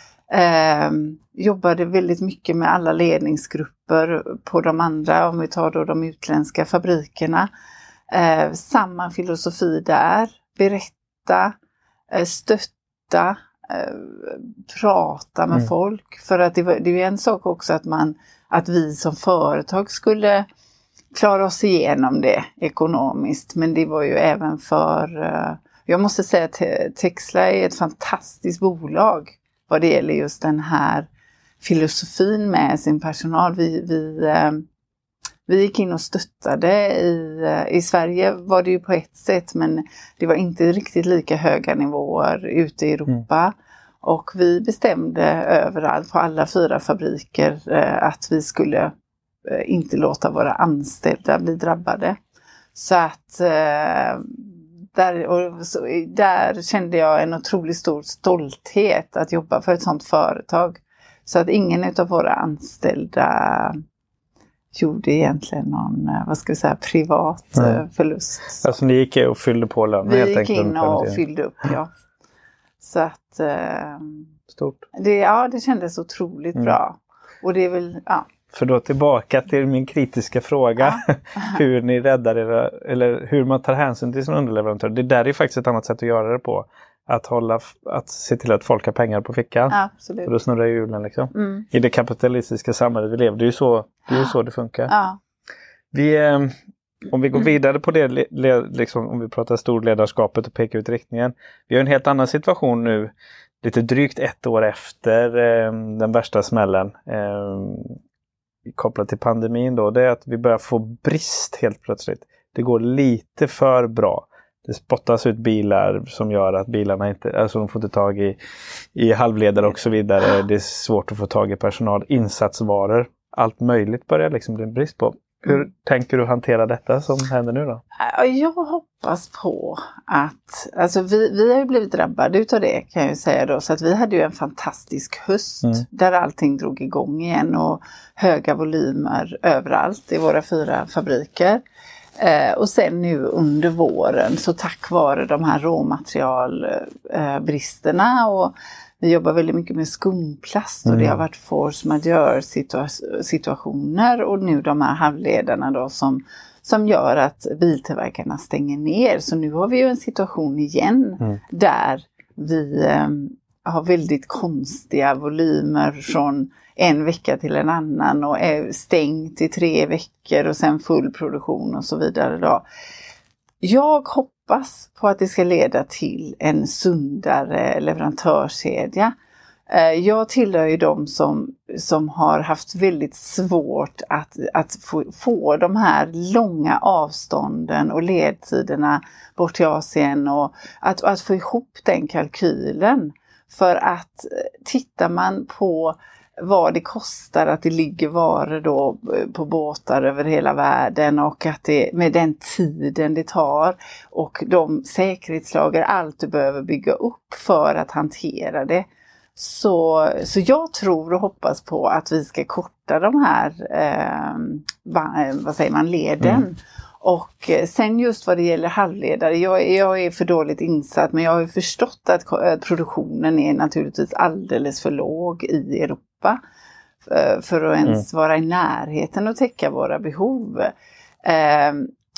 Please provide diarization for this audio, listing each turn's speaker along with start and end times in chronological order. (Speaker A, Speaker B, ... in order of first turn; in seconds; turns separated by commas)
Speaker A: 0.3-7.5, Speaker A: 8.1-11.5, Speaker A: 12.1-20.4, Speaker A: 21.1-31.1, Speaker A: 31.6-34.6, Speaker A: 35.5-48.9, Speaker A: 49.4-52.2, Speaker A: 52.7-63.8, Speaker A: 64.7-68.6, Speaker B: 68.6-71.2, Speaker A: 70.0-71.9, Speaker A: 72.8-74.3, Speaker B: 74.5-74.8, Speaker A: 74.9-78.3, Speaker B: 78.5-94.9, Speaker A: 89.7-90.3, Speaker A: 91.3-91.6, Speaker A: 94.9-95.2, Speaker B: 95.9-108.0, Speaker B: 108.7-118.4, Speaker B: 118.9-127.8, Speaker A: 128.0-141.6, Speaker A: 142.2-172.6, Speaker B: 150.8-151.2, Speaker A: 173.6-179.1, Speaker A: 179.7-226.4, Speaker A: 227.0-230.7, Speaker A: 231.2-231.9